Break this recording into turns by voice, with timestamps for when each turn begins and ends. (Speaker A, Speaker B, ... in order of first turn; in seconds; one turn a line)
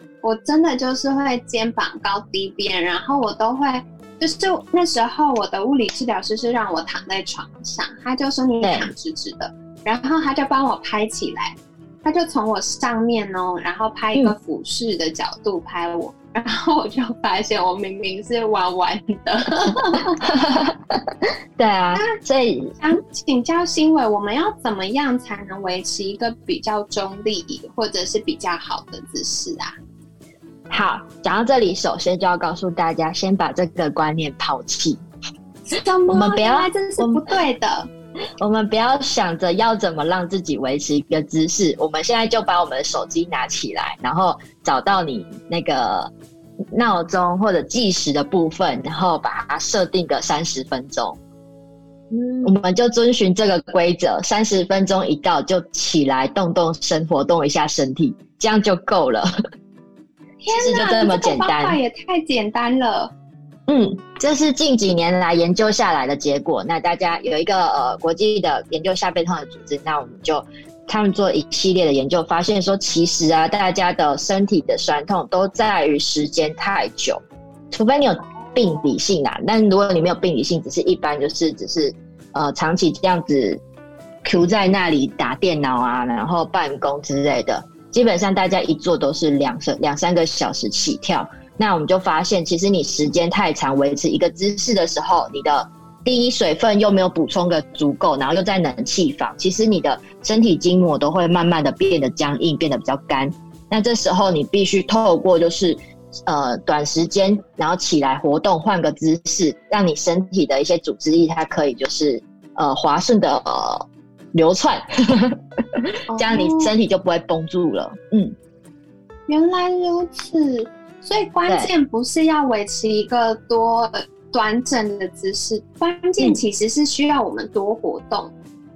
Speaker A: 0.2-20.2
Speaker B: 8.6-8.9
Speaker B: 20.2-21.0
Speaker B: 21.6-22.7
Speaker A: 22.8-29.7
Speaker B: 30.7-35.0
Speaker A: 35.7-37.9
Speaker B: 36.1-37.2
Speaker B: 38.4-46.1
Speaker B: 46.7-51.2
Speaker B: 52.4-59.3
Speaker A: 60.4-63.1
Speaker B: 60.5-61.8
Speaker B: 63.7-83.6
Speaker A: 78.4-78.8
Speaker B: 84.2-118.3
Speaker A: 116.1-116.7
Speaker A: 119.3-128.3